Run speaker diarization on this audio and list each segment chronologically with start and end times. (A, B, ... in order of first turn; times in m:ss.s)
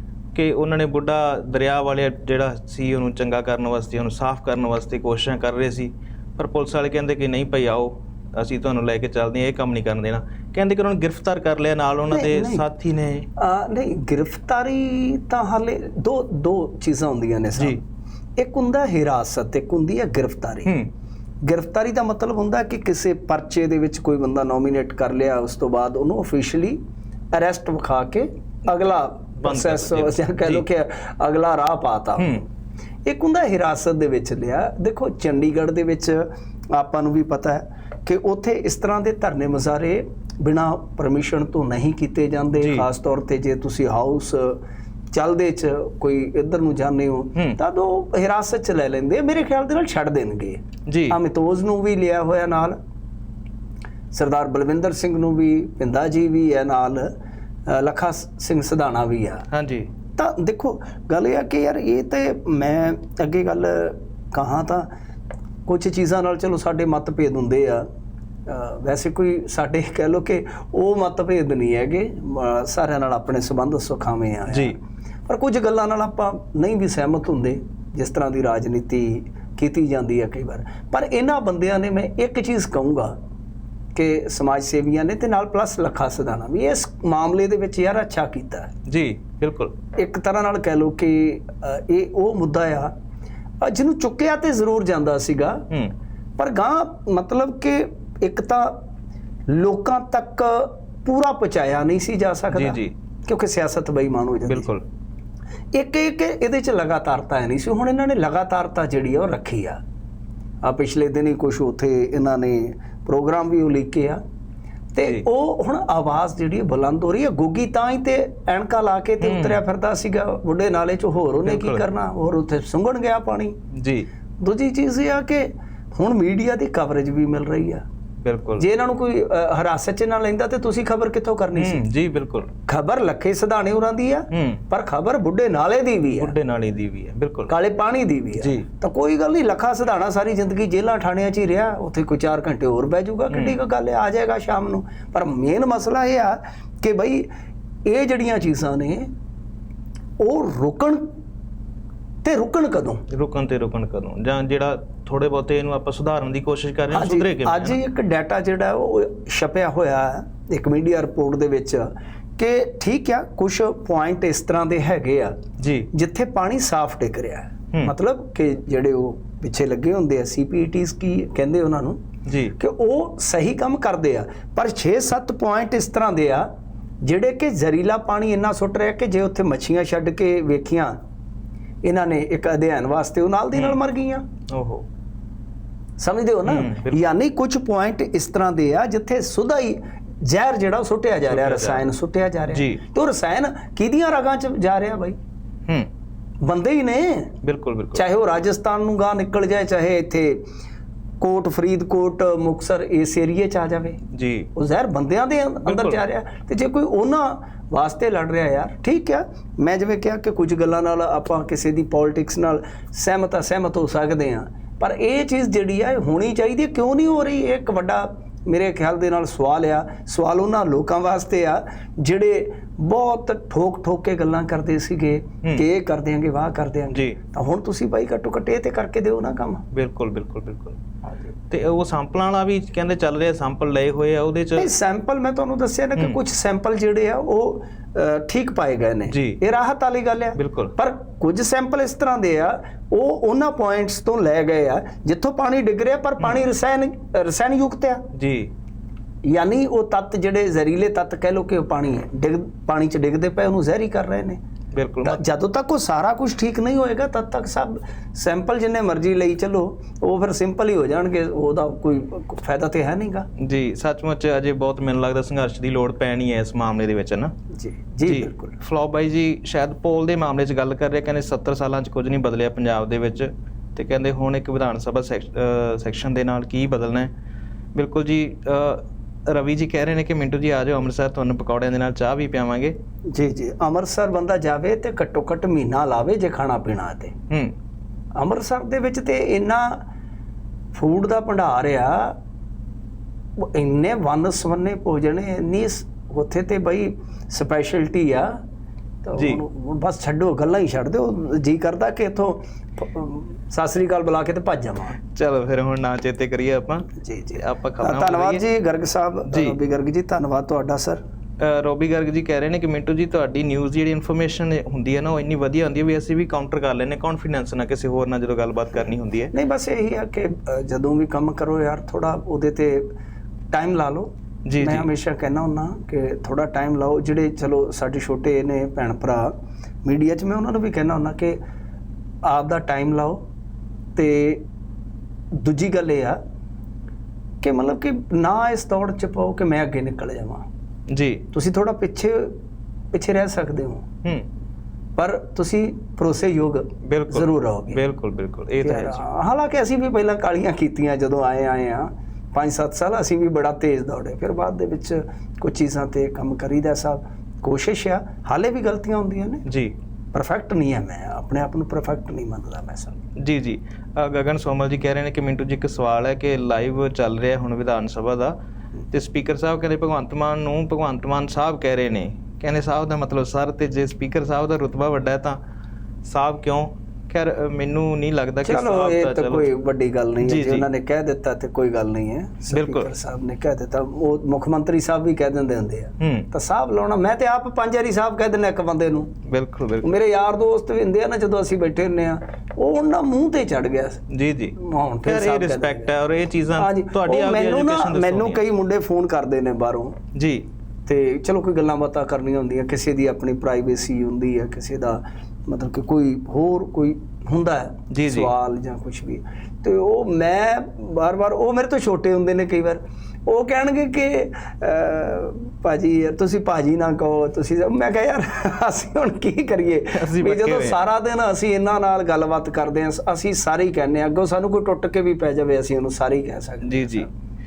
0:00.3-0:13.3 A
0:12.1-0:12.6 B
0:13.4-0:17.8 B
0:18.4-0:20.8 B
0:20.6-0:20.9 A
0:21.4-0:26.8 B
0:27.3-0:32.4 B
0:29.4-0:30.6 A
0:33.0-0:44.6 B
0:42.6-0:42.8 A
0:45.1-0:52.8 B
0:50.8-0:51.2 A
0:54.1-0:57.1 B
0:57.7-0:59.4 B
0:59.5-0:59.9 A
1:00.2-1:04.9 B
1:05.6-1:07.8 B
1:08.4-1:23.1 B
1:14.5-1:14.8 A
1:23.9-1:28.7 B
1:28.9-1:29.7 A
1:30.0-1:32.9 B
1:33.6-1:35.6 B
1:36.4-1:38.8 B
1:39.5-1:44.7 B
1:42.5-1:42.9 A
1:44.5-1:44.8 A
1:45.7-1:49.8 B
1:50.6-1:54.2 B
1:54.9-2:03.5 B
1:59.2-1:59.6 A
2:01.4-2:01.8 A
2:03.7-2:04.1 A
2:04.4-2:07.8 B
2:08.2-2:08.6 A
2:08.6-2:11.8 B
2:11.6-2:12.5 A
2:12.7-2:16.3 B
2:14.3-2:14.6 A
2:16.2-2:17.5 A
2:17.5-2:27.3 B
2:18.4-2:18.6 A
2:27.8-2:29.1 B
2:30.2-2:31.0 B
2:32.2-2:33.0 B
2:33.1-2:37.8 A
2:36.9-2:45.3 B
2:45.6-2:45.9 A
2:45.9-2:52.0 B
2:52.2-2:52.5 A
2:52.6-2:56.5 B
2:57.0-3:00.9 B
3:01.8-3:04.2 B
3:04.5-3:04.8 A
3:06.0-3:15.2 B
3:06.4-3:07.0 A
3:11.2-3:11.8 A
3:12.5-3:12.8 A
3:16.4-3:17.3 B
3:17.4-3:18.0 A
3:17.9-3:20.4 B
3:21.2-3:24.0 B
3:24.1-3:24.5 A
3:24.6-3:49.6 B
3:25.6-3:26.0 A
3:46.9-3:47.2 A
3:49.7-3:50.8 A
3:51.5-3:54.7 A
3:54.5-4:08.0 B
3:59.1-3:59.4 A
4:00.4-4:00.7 A
4:08.1-4:08.5 A
4:09.2-4:14.4 B
4:14.7-4:15.2 A
4:15.0-4:23.3 B
4:23.4-4:27.3 A
4:27.5-4:28.6 B
4:28.0-4:37.1 A
4:37.7-4:42.8 A
4:43.1-4:47.1 B
4:48.2-4:49.8 B
4:50.7-4:52.2 B
4:53.4-4:58.3 B
4:59.0-5:05.0 B
4:59.2-4:59.4 A
5:05.0-5:08.4 A
5:07.0-5:11.0 B
5:09.3-5:09.6 A
5:11.4-5:19.3 A
5:19.3-5:22.9 B
5:23.5-5:31.4 B
5:24.5-5:24.9 A
5:32.2-5:33.2 B
5:34.0-5:34.4 B
5:35.4-5:36.2 B
5:37.4-5:40.4 B
5:40.9-5:41.2 A
5:41.3-5:42.3 B
5:42.9-5:43.8 B
5:45.0-5:47.8 B
5:46.8-5:49.0 A
5:48.6-5:59.4 B
5:59.4-5:59.7 A
6:00.1-6:03.0 B
6:03.2-6:08.3 A
6:08.9-6:15.4 A
6:16.0-6:19.5 A
6:18.4-6:29.1 B
6:20.2-6:20.7 A
6:22.5-6:22.9 A
6:26.0-6:26.3 A
6:29.3-6:29.9 A
6:29.8-6:34.0 B
6:34.1-6:38.4 A
6:34.6-6:35.9 B
6:36.6-6:40.0 B
6:40.1-6:40.4 A
6:40.8-7:07.1 B
6:47.9-6:48.3 A
6:59.9-7:00.8 A
7:06.6-7:07.1 A